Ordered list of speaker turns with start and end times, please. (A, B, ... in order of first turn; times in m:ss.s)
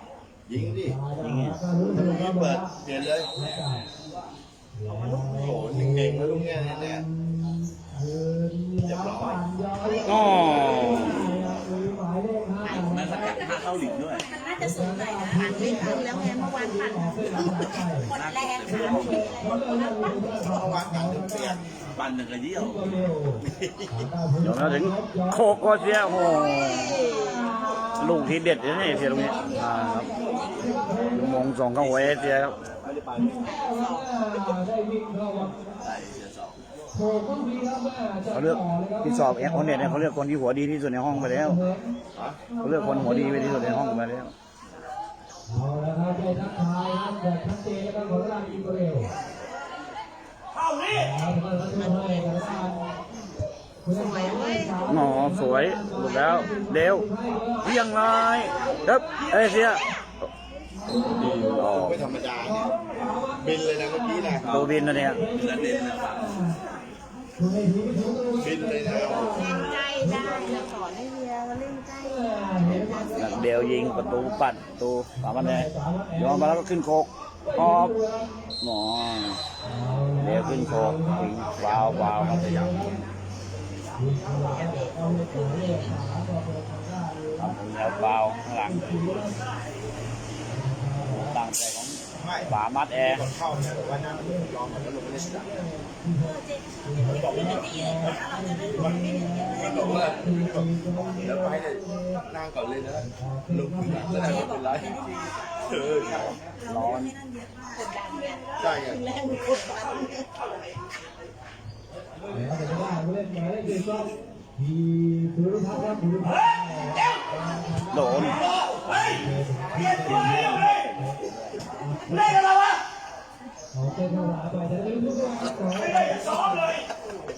0:00.5-0:01.0 A
0:00.5-0:02.7 B
0:01.2-0:01.6 C
0:01.8-0:03.3 A
0:03.3-0:03.8 B
0:04.7-0:13.3 B
0:05.0-0:07.0 A
0:08.8-0:09.4 D
0:10.0-0:11.3 C
0:12.6-0:14.3 D
0:12.8-0:13.4 E
0:14.3-0:19.3 E
0:14.6-0:18.1 B
0:18.1-0:19.4 D
0:18.7-0:21.7 B
0:20.3-0:21.6 A
0:21.9-0:23.8 D
0:22.5-0:25.6 B
0:24.4-0:27.0 C
0:26.3-0:27.4 E
0:27.0-0:31.4 B
0:28.0-0:30.1 C
0:29.2-0:30.5 E
0:31.1-0:32.5 C
0:31.7-0:34.1 D
0:33.1-0:35.7 B
0:35.8-0:36.6 D
0:36.9-0:40.1 B
0:38.3-0:41.6 C
0:41.1-0:42.0 B
0:42.1-0:42.4 A
0:42.5-0:44.0 B
0:42.6-0:44.3 C
0:45.5-0:49.1 B
0:50.9-0:52.9 B
0:53.8-0:57.8 B
0:53.9-0:55.0 E
0:54.9-0:57.0 C
0:57.6-0:59.8 C
0:59.1-0:59.9 E
1:00.8-1:06.6 B
1:01.1-1:01.5 D
1:01.1-1:02.7 A
1:01.5-1:02.2 C
1:03.4-1:04.7 A
1:04.4-1:06.3 D
1:04.5-1:05.2 C
1:07.4-1:10.6 B
1:08.4-1:09.4 A
1:09.2-1:13.6 E
1:12.0-1:14.4 B
1:13.1-1:17.9 C
1:15.2-1:16.6 B
1:17.4-1:18.3 B
1:18.6-1:19.4 C
1:19.6-1:23.0 B
1:20.2-1:22.6 C
1:21.5-1:22.8 D
1:24.0-1:29.4 B
1:24.7-1:25.9 E
1:27.4-1:28.8 C
1:30.5-1:31.4 B
1:31.0-1:33.3 C
1:32.1-1:35.6 A
1:32.3-1:32.6 B
1:33.1-1:42.2 B
1:37.0-1:44.9 A
1:42.9-1:44.5 B
1:45.6-1:46.3 A
1:46.6-1:47.1 C
1:46.7-1:50.3 E
1:48.6-1:49.0 A
1:52.3-2:01.2 B
1:57.9-1:58.4 C
1:59.9-2:01.6 D
2:01.8-2:02.4 B
2:03.7-2:06.7 B